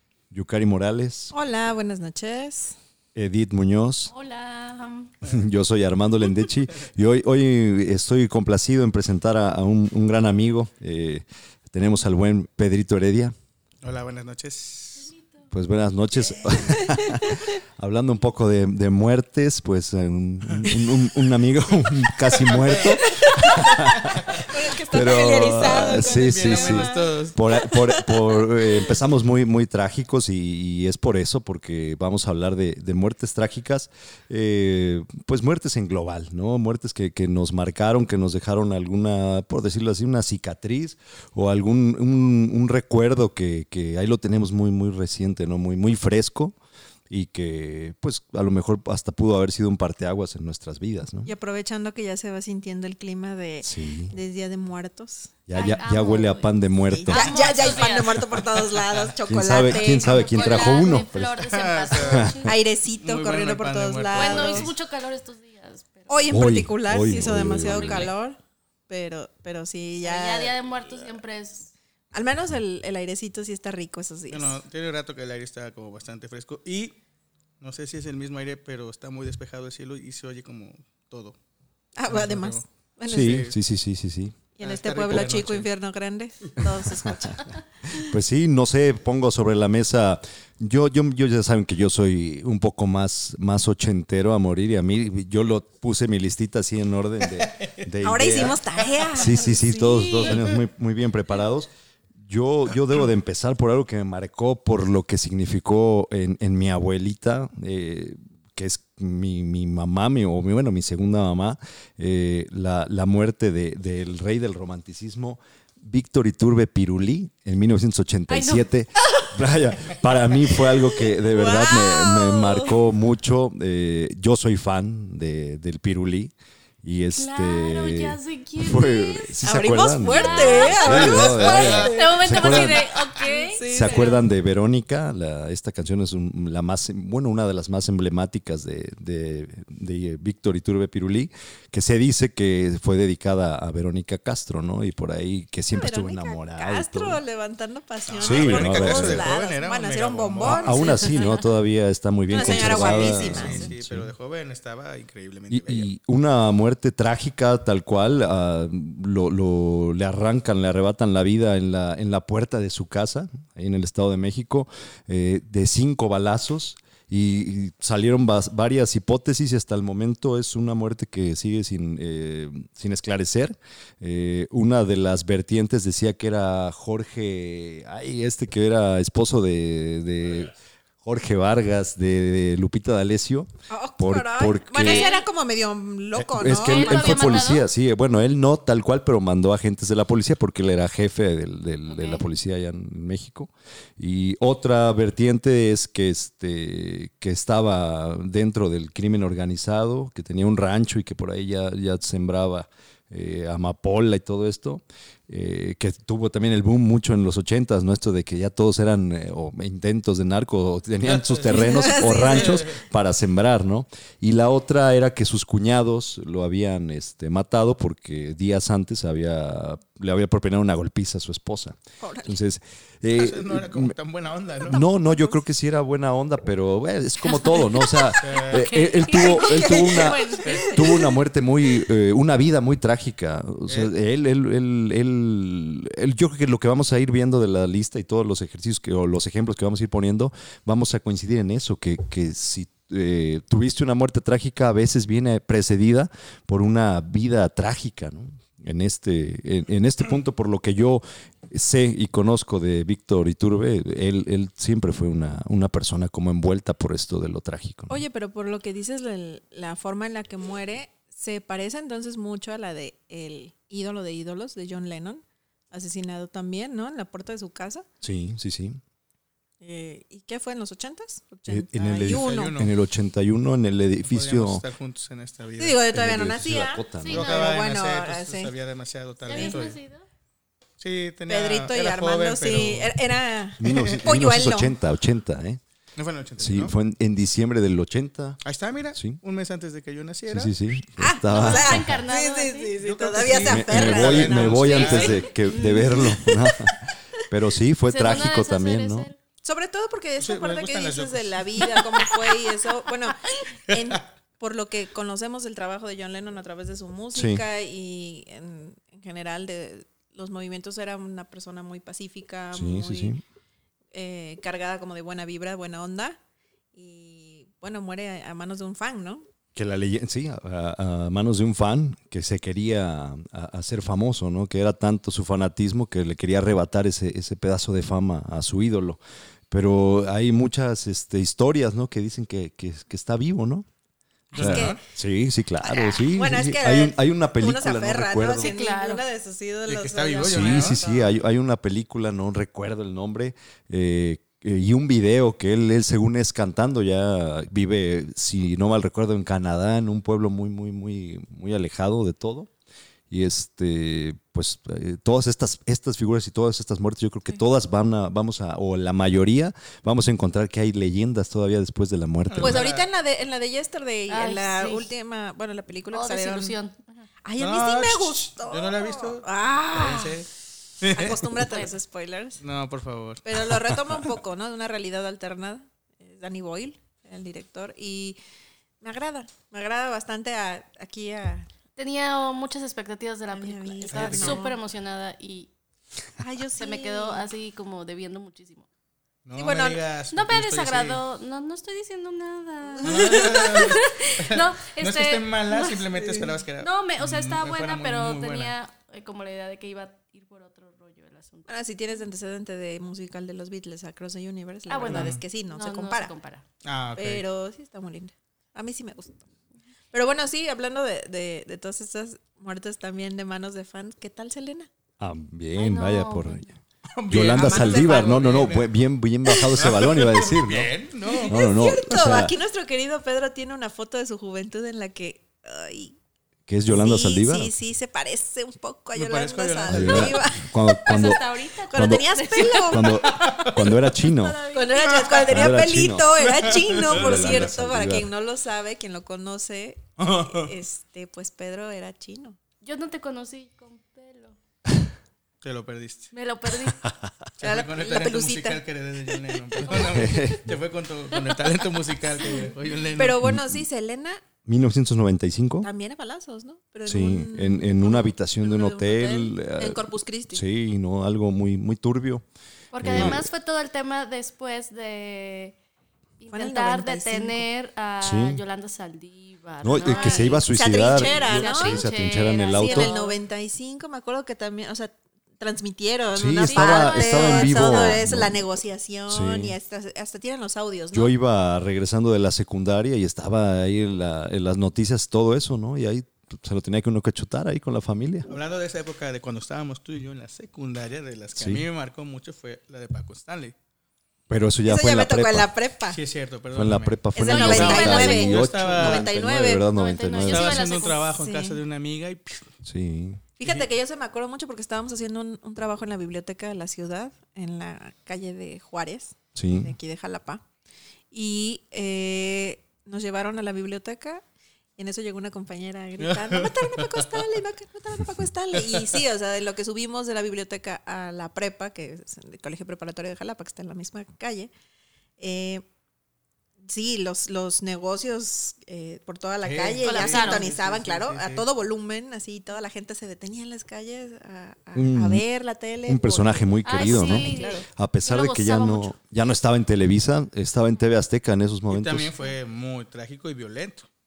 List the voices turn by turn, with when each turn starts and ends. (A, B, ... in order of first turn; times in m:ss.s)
0:00.3-0:01.3 A
0:01.3-0:02.8 B
0:03.2-0:04.1 A
0:04.1-0:05.1 C
0:05.2-0:13.4 A
0:13.8-0:15.1 D
0:15.0-0:15.5 C
0:15.5-0:46.6 A
0:16.5-0:17.5 B
0:22.4-0:23.0 D
0:22.8-0:28.9 B
0:23.6-0:24.4 D
0:25.6-0:27.4 D
0:47.1-0:51.3 A
0:51.2-0:56.1 B
0:53.6-0:54.2 A
0:55.5-0:57.9 A
0:55.5-0:56.5 C
0:56.9-1:01.0 B
0:57.1-0:58.3 C
0:59.3-1:02.6 A
0:59.6-1:02.6 C
1:01.5-1:02.3 D
1:02.4-1:04.7 B
1:03.0-1:04.7 D
1:04.2-1:06.4 C
1:06.1-1:08.4 B
1:06.3-1:08.1 A
1:07.5-1:08.1 C
1:07.8-1:08.1 D
1:08.9-1:10.6 B
1:10.0-1:11.7 C
1:12.1-1:14.6 B
1:14.3-1:17.0 D
1:17.6-1:21.4 D
1:22.0-1:23.4 B
1:22.1-1:23.6 D
1:23.1-1:24.4 A
1:24.6-1:28.0 B
1:24.6-1:25.7 D
1:27.9-2:13.0 A
1:37.3-1:37.8 D
1:38.0-1:40.4 B
1:38.8-1:39.1 D
1:40.3-1:40.6 D
1:58.3-1:58.7 C
2:00.9-2:02.8 B
2:07.1-2:09.4 C
2:09.4-2:14.2 B
2:10.0-2:14.2 C
2:11.2-2:11.6 D
2:13.7-2:27.2 A
2:25.7-2:31.3 B
2:28.1-2:30.9 D
2:28.2-2:29.3 A
2:30.4-2:34.1 A
2:32.3-2:33.7 B
2:32.4-2:35.9 D
2:35.5-3:05.1 A
3:03.7-3:07.5 B
3:04.8-3:05.3 C
3:06.2-3:44.0 A
3:06.4-3:07.7 C
3:11.9-3:12.2 C
3:31.0-3:32.8 D
3:31.5-3:32.6 B
3:42.0-3:42.4 B
3:43.1-3:44.8 D
3:44.6-4:18.0 A
3:47.4-3:50.8 C
3:48.2-3:48.7 D
3:49.2-3:51.1 B
3:50.4-3:50.7 D
4:17.9-4:27.9 B
4:28.0-4:28.8 A
4:29.6-4:32.5 B
4:31.5-4:34.6 A
4:32.0-4:32.7 D
4:34.0-4:35.8 D
4:35.6-4:38.5 B
4:35.9-4:37.2 A
4:37.0-4:37.5 C
4:37.1-4:39.8 D
4:39.2-4:40.1 C
4:39.3-4:39.6 B
4:40.8-4:43.0 D
4:41.3-4:44.8 B
4:43.6-4:45.6 A
4:43.7-4:44.1 D
4:46.0-4:46.7 D
4:46.4-4:48.4 A
4:48.4-4:50.5 D
4:48.9-4:49.2 A
4:50.3-4:52.0 A
4:51.0-4:56.8 B
4:51.3-4:52.7 C
4:52.8-4:55.3 D
4:53.2-4:59.1 A
4:54.7-4:56.1 C
4:57.9-4:59.2 C
4:59.4-5:13.2 B
5:00.2-5:02.3 D
5:03.7-5:04.0 D
5:07.1-5:07.4 A
5:12.5-5:13.2 A
5:13.9-5:16.2 B
5:16.7-5:19.3 B
5:19.6-5:29.0 A
5:29.5-5:33.7 A
5:34.3-5:34.8 B
5:34.3-5:34.8 D
5:34.4-5:38.5 A
5:35.6-5:41.2 B
5:38.4-5:39.1 C
5:39.7-5:40.8 D
5:40.3-5:52.5 A
5:53.1-6:02.6 A
6:02.3-6:02.9 D
6:02.4-6:06.6 B
6:04.1-6:04.9 C
6:05.9-6:07.1 C
6:07.2-6:10.2 B
6:07.4-6:10.3 D
6:10.8-6:11.3 D
6:10.8-6:12.4 B
6:11.5-6:11.7 C
6:12.4-6:13.2 D
6:13.2-6:18.2 B
6:18.8-6:21.5 B
6:21.8-6:25.5 C
6:23.3-6:24.6 B
6:23.9-6:24.5 D
6:26.2-6:27.3 B
6:26.6-6:28.7 C
6:29.3-6:31.0 D
6:29.4-6:29.8 B
6:30.1-6:35.9 C
6:32.7-6:33.2 B
6:32.8-6:38.5 D
6:36.0-6:36.3 B
6:36.6-6:41.5 C
6:41.5-6:46.1 B
6:44.7-6:46.4 C
6:44.8-6:45.2 D
6:46.6-6:47.2 D
6:47.0-6:49.2 B
6:49.9-6:54.7 B
6:55.0-6:56.5 A
6:55.6-6:56.5 C
6:56.9-6:58.7 D
6:57.1-7:00.7 A
6:57.4-6:58.1 B
6:59.3-6:59.7 B
6:59.6-7:01.4 D
7:01.1-7:06.0 B
7:01.2-7:02.4 A
7:06.5-7:07.5 A
7:06.7-7:13.4 B
7:08.9-7:10.2 D
7:09.7-7:14.4 A
7:10.7-7:15.5 C
7:13.1-7:13.6 D
7:14.5-7:22.4 B
7:14.8-7:15.5 D
7:15.2-7:18.1 A
7:16.2-7:17.5 D
7:20.0-7:20.5 D
7:22.6-7:24.4 C
7:25.4-7:26.1 D
7:26.1-7:26.8 C
7:27.4-7:33.2 D
7:27.4-7:28.6 B
7:29.8-7:30.6 A
7:33.0-7:34.2 B
7:33.2-7:33.6 A
7:34.4-7:35.7 A
7:35.6-7:40.5 B
7:36.9-7:42.2 A
7:42.7-7:45.6 C
7:42.8-7:43.3 A
7:42.9-7:43.2 B
7:46.2-7:53.2 C
7:46.3-7:47.5 B
7:48.0-7:48.4 A
7:49.6-7:52.9 A
7:49.8-7:51.8 B
7:52.5-8:01.1 B
7:56.1-7:58.4 A
7:56.4-7:58.0 C
7:59.1-7:59.6 A
8:00.9-8:08.3 A
8:08.3-8:13.6 D
8:11.4-8:11.7 A
8:14.3-8:15.5 A
8:14.6-8:16.0 B
8:15.9-8:19.1 D
8:16.5-8:20.8 A
8:17.2-8:19.7 B
8:17.2-8:18.4 C
8:19.7-8:21.0 C
8:20.3-8:22.5 D
8:20.9-8:21.6 B
8:22.6-8:23.2 A
8:23.4-8:30.4 B
8:23.4-8:23.7 D
8:29.4-8:29.8 A
8:31.1-8:34.2 B
8:34.8-8:44.5 B
8:36.0-8:37.2 D
8:38.6-8:38.9 D
8:45.2-8:45.6 B
8:46.6-8:57.6 B
8:49.4-8:51.4 D
8:49.8-8:50.5 C
8:54.7-8:55.2 A
8:55.9-9:02.1 A
8:56.6-8:58.9 C
9:01.7-9:03.9 D